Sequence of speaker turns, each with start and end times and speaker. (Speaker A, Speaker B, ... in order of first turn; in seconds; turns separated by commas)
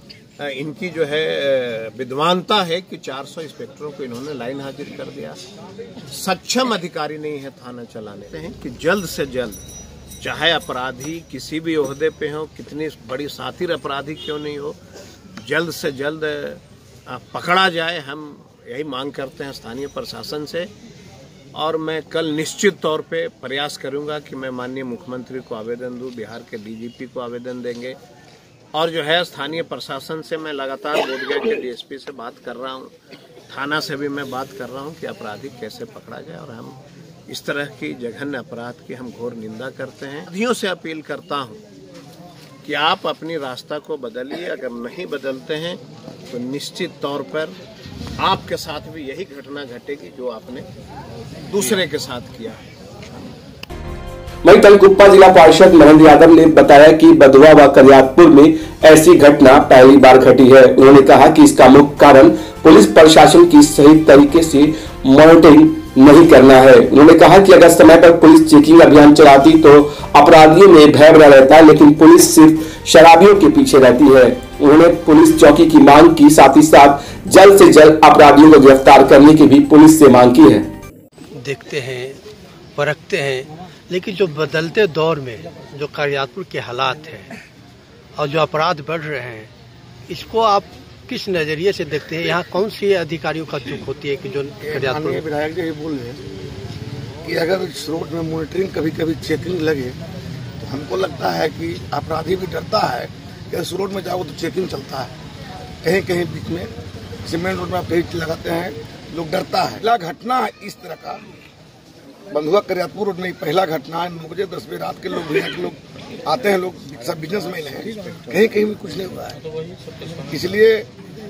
Speaker A: 0.4-5.4, Speaker A: 6.1-9.7, Speaker A: 10.2-14.8, Speaker A: 15.4-20.7, Speaker A: 21.5-28.0, Speaker A: 28.7-32.9, Speaker A: 33.5-41.6, Speaker A: 42.6-47.6, Speaker A: 48.2-50.7, Speaker A: 51.5-52.6, Speaker B: 54.5-80.7, Speaker C: 81.4-82.2, Speaker C: 82.8-87.3, Speaker C: 88.2-89.5, Speaker C: 90.1-95.2, Speaker D: 94.6-96.2, Speaker D: 97.2-100.0, Speaker D: 100.6-105.1, Speaker D: 105.8-106.7, Speaker D: 107.2-111.2, Speaker D: 112.3-119.4, Speaker A: 118.0-118.4, Speaker D: 120.2-120.9